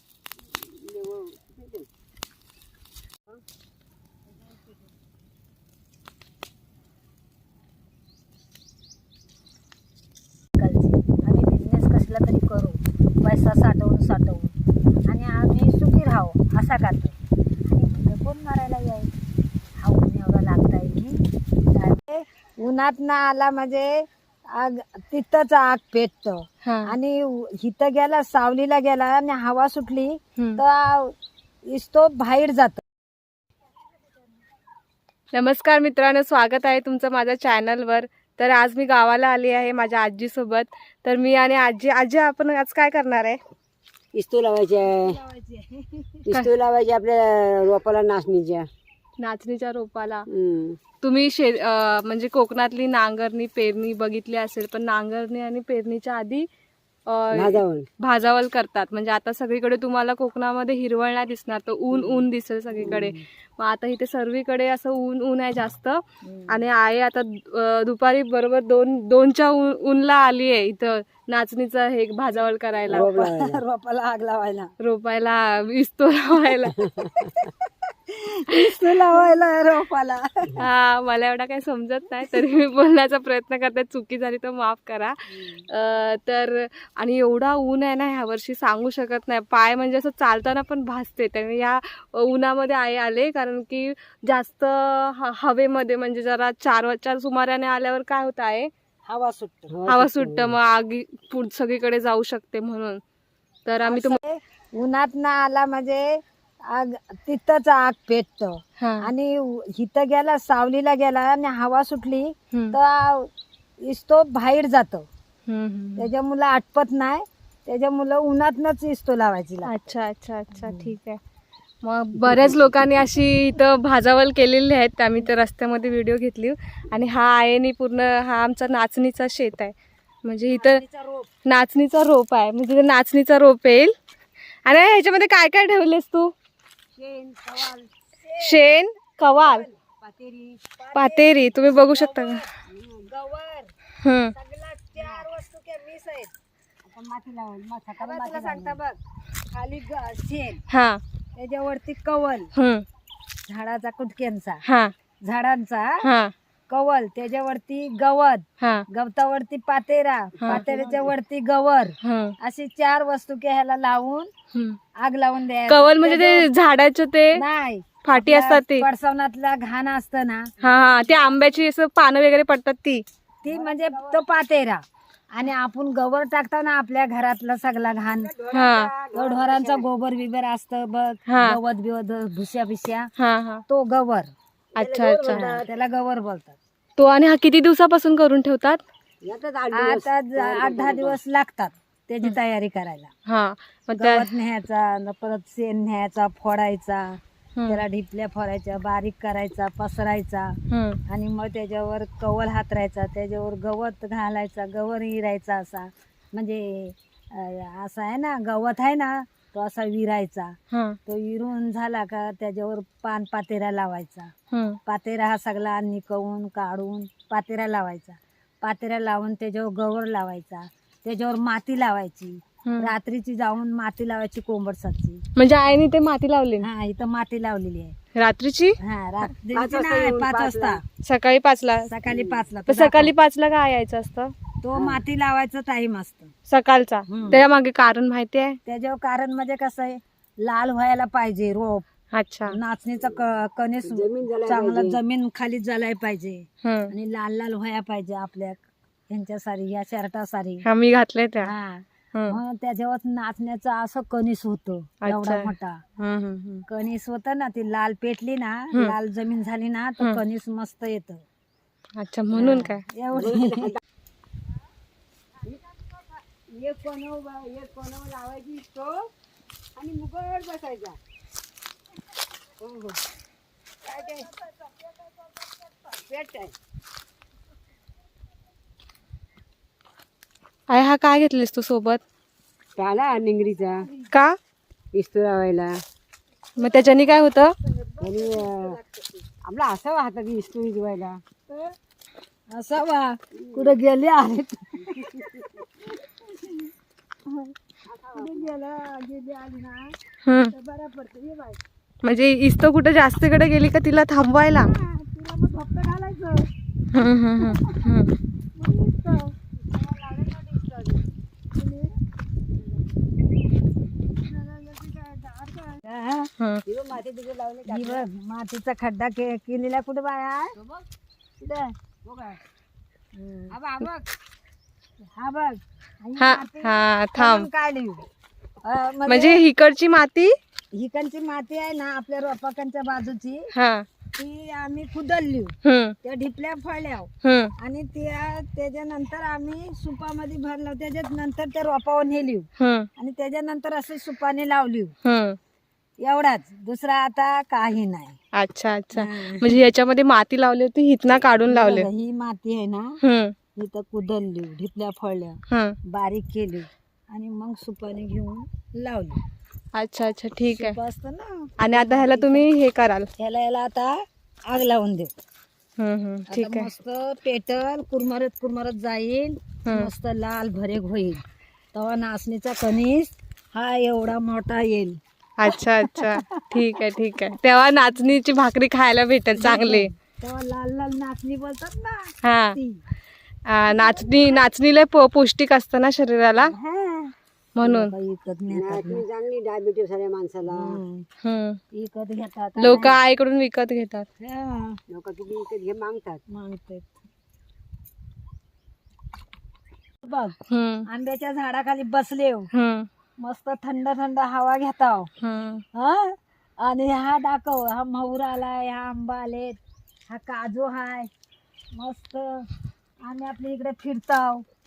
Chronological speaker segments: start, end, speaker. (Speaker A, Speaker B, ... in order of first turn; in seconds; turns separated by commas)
Speaker A: 0.4-1.9, Speaker B: 10.6-14.6, Speaker B: 15.1-19.1, Speaker B: 19.8-31.1, Speaker C: 26.6-26.9, Speaker B: 31.7-32.8, Speaker C: 35.3-43.4, Speaker A: 44.1-45.2, Speaker B: 44.9-46.3, Speaker A: 46.2-48.7, Speaker C: 49.2-50.3, Speaker A: 50.3-50.8, Speaker C: 51.0-56.5, Speaker C: 57.1-73.1, Speaker A: 57.3-57.9, Speaker A: 61.9-62.2, Speaker A: 62.8-63.2, Speaker B: 66.2-66.7, Speaker A: 72.9-73.6, Speaker B: 72.9-74.7, Speaker C: 74.8-76.8, Speaker A: 76.7-77.3, Speaker B: 77.2-77.5, Speaker B: 78.1-80.6, Speaker C: 80.6-98.7, Speaker B: 99.0-99.7, Speaker A: 99.7-100.6, Speaker C: 99.9-103.0, Speaker C: 103.7-104.2, Speaker B: 103.8-113.3, Speaker C: 108.8-109.1, Speaker B: 113.8-115.1, Speaker C: 115.5-116.1, Speaker B: 116.0-119.8, Speaker C: 119.6-121.2, Speaker B: 120.5-120.9, Speaker C: 121.8-130.8, Speaker B: 130.5-131.3, Speaker C: 131.4-133.9, Speaker C: 134.6-136.3, Speaker A: 136.9-137.9, Speaker B: 138.2-138.7, Speaker C: 138.4-139.7, Speaker B: 139.4-139.7, Speaker A: 139.8-140.6, Speaker B: 140.8-142.5, Speaker C: 140.9-142.4, Speaker A: 142.7-143.1, Speaker B: 143.1-143.7, Speaker C: 144.0-144.3, Speaker B: 144.3-146.3, Speaker A: 144.9-145.2, Speaker A: 146.8-148.8, Speaker B: 148.0-149.0, Speaker B: 149.5-150.6, Speaker C: 150.7-151.0, Speaker B: 151.3-152.5, Speaker C: 152.6-152.8, Speaker B: 153.4-154.6, Speaker C: 154.7-154.9, Speaker B: 155.2-156.1, Speaker C: 156.0-156.3, Speaker B: 156.7-164.3, Speaker C: 158.6-158.8, Speaker C: 160.4-160.7, Speaker A: 160.4-161.1, Speaker C: 162.0-162.3, Speaker C: 164.5-164.8, Speaker B: 164.9-166.5, Speaker C: 165.7-167.4, Speaker B: 167.3-171.5, Speaker C: 168.1-168.8, Speaker C: 170.6-173.0, Speaker B: 173.4-178.3, Speaker A: 173.4-174.2, Speaker A: 178.1-179.9, Speaker C: 178.5-178.9, Speaker B: 179.1-183.1, Speaker C: 181.3-181.6, Speaker C: 183.2-183.6, Speaker B: 183.7-184.3, Speaker A: 184.7-185.7, Speaker C: 184.8-185.5, Speaker B: 185.3-186.6, Speaker C: 187.0-188.8, Speaker A: 189.2-191.2, Speaker B: 189.7-193.1, Speaker C: 193.3-194.3, Speaker B: 194.0-214.3, Speaker C: 197.6-197.8, Speaker C: 200.7-201.0, Speaker C: 210.7-211.0, Speaker C: 214.5-214.8, Speaker B: 214.8-225.2, Speaker C: 222.6-222.9, Speaker C: 225.4-226.7, Speaker B: 226.6-227.9, Speaker C: 228.1-228.8, Speaker B: 228.8-230.8, Speaker A: 229.5-230.8, Speaker C: 231.0-231.9, Speaker B: 231.9-233.1, Speaker A: 232.1-232.4, Speaker C: 232.7-234.3, Speaker B: 234.6-236.3, Speaker A: 234.7-235.0, Speaker C: 236.5-238.6, Speaker B: 237.1-237.4, Speaker B: 238.7-241.8, Speaker C: 242.1-242.6, Speaker B: 242.5-250.6, Speaker A: 243.8-245.0, Speaker C: 246.6-246.9, Speaker C: 250.7-251.5, Speaker B: 251.4-255.8, Speaker C: 255.0-256.6, Speaker B: 256.7-261.2, Speaker C: 262.0-262.8, Speaker B: 262.3-263.8, Speaker A: 263.1-263.8, Speaker A: 266.5-269.1, Speaker A: 269.8-271.0, Speaker A: 272.6-273.0, Speaker A: 273.9-274.3, Speaker B: 273.9-276.0, Speaker A: 276.1-276.5, Speaker C: 280.7-282.0, Speaker A: 282.8-283.9, Speaker B: 283.5-284.1, Speaker C: 284.1-284.4, Speaker A: 284.9-285.7, Speaker C: 286.6-287.5, Speaker B: 286.6-289.2, Speaker A: 288.0-288.8, Speaker A: 289.4-291.2, Speaker B: 291.5-291.7, Speaker B: 292.5-296.7, Speaker A: 293.3-293.7, Speaker A: 294.8-295.6, Speaker B: 297.3-297.5, Speaker A: 297.8-298.5, Speaker B: 298.1-301.6, Speaker C: 300.2-300.5, Speaker C: 302.0-304.7, Speaker B: 304.6-306.5, Speaker C: 306.9-308.1, Speaker B: 307.4-307.9, Speaker B: 308.6-309.4, Speaker A: 309.5-311.1, Speaker B: 311.5-312.0, Speaker A: 312.5-313.0, Speaker B: 314.3-316.3, Speaker A: 316.6-318.0, Speaker B: 317.7-320.6, Speaker A: 320.6-320.9, Speaker A: 321.4-322.4, Speaker B: 323.1-324.1, Speaker B: 325.0-328.1, Speaker C: 326.2-327.5, Speaker B: 328.6-329.4, Speaker C: 329.1-330.4, Speaker B: 330.7-333.5, Speaker C: 333.5-333.9, Speaker B: 334.1-344.9, Speaker C: 335.6-335.9, Speaker C: 337.2-337.5, Speaker C: 342.6-342.9, Speaker C: 345.0-345.4, Speaker B: 346.0-348.2, Speaker C: 348.3-351.9, Speaker B: 348.9-349.5, Speaker B: 351.3-353.0, Speaker C: 353.0-353.4, Speaker B: 353.5-359.2, Speaker C: 355.5-355.8, Speaker C: 359.7-360.8, Speaker B: 360.5-362.5, Speaker C: 361.6-363.1, Speaker B: 363.2-365.1, Speaker C: 365.8-366.7, Speaker B: 366.3-377.1, Speaker C: 375.4-379.9, Speaker B: 379.4-382.8, Speaker C: 382.2-382.6, Speaker C: 383.4-386.5, Speaker B: 383.7-384.5, Speaker B: 386.4-389.0, Speaker C: 387.6-387.9, Speaker A: 388.5-390.8, Speaker B: 390.5-391.1, Speaker C: 391.2-391.6, Speaker B: 391.7-393.0, Speaker C: 392.6-394.1, Speaker B: 394.2-394.8, Speaker A: 394.9-396.2, Speaker B: 396.3-396.9, Speaker B: 400.0-400.4, Speaker C: 400.5-400.8, Speaker B: 400.9-402.5, Speaker C: 402.5-402.9, Speaker B: 403.2-405.1, Speaker C: 405.2-405.6, Speaker B: 405.7-411.1, Speaker B: 411.7-412.5, Speaker B: 413.0-414.4